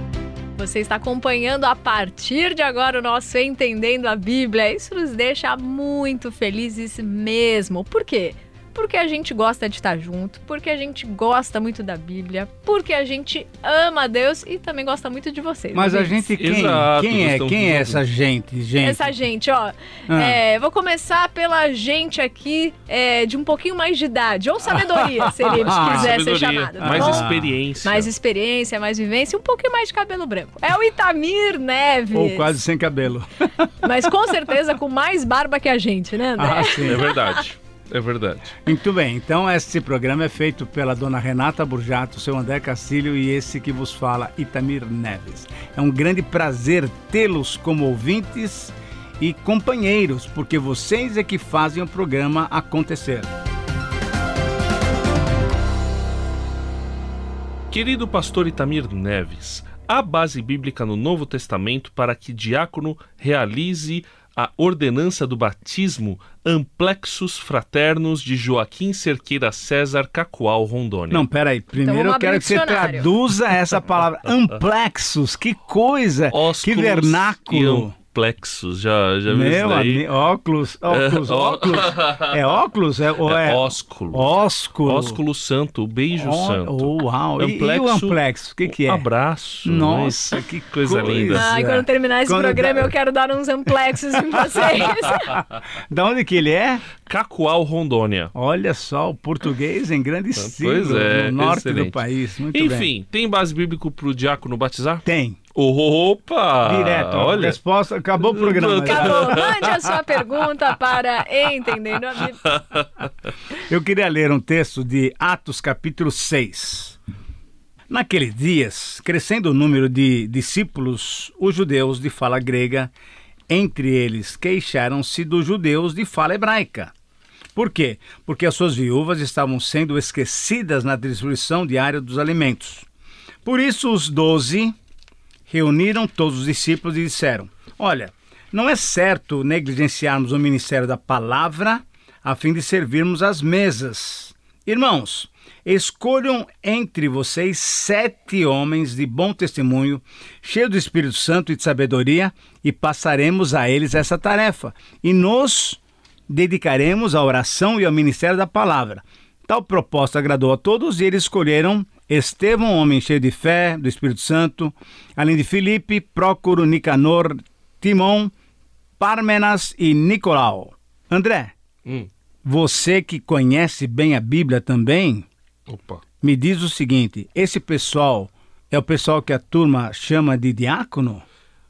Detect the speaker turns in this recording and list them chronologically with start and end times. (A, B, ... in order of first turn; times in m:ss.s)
0:00.6-0:16.3 A
0:15.7-0:19.1 B
0:16.4-0:18.0 C
0:18.8-0:32.6 A
0:20.1-0:20.4 B
0:25.5-0:26.2 B
0:25.6-0:28.1 C
0:26.8-0:27.6 B
0:32.1-0:34.0 B
0:33.8-0:37.4 A
0:36.4-0:37.1 B
0:36.8-0:38.6 C
0:38.6-0:53.3 B
0:57.7-1:11.3 C
1:11.1-1:18.0 B
1:11.8-1:13.1 A
1:16.3-1:20.1 C
1:19.3-1:25.2 B
1:20.9-1:22.4 C
1:23.2-1:24.3 C
1:24.8-1:31.5 C
1:26.2-1:29.1 B
1:29.6-1:32.9 B
1:31.3-1:35.4 A
1:34.6-1:36.9 B
1:37.0-1:38.3 C
1:38.3-1:42.9 B
1:40.4-1:47.6 C
1:45.1-1:45.4 B
1:46.6-1:49.6 B
1:48.2-1:50.8 C
1:48.8-1:52.5 A
1:52.5-1:53.1 C
1:53.6-1:57.0 B
1:57.9-2:02.9 B
2:03.5-2:06.9 B
2:07.6-2:12.9 B
2:13.4-2:14.8 B
2:15.5-2:48.3 B
2:49.0-2:51.6 B
2:52.4-2:55.3 B
2:55.7-2:56.0 C
2:56.2-3:01.2 B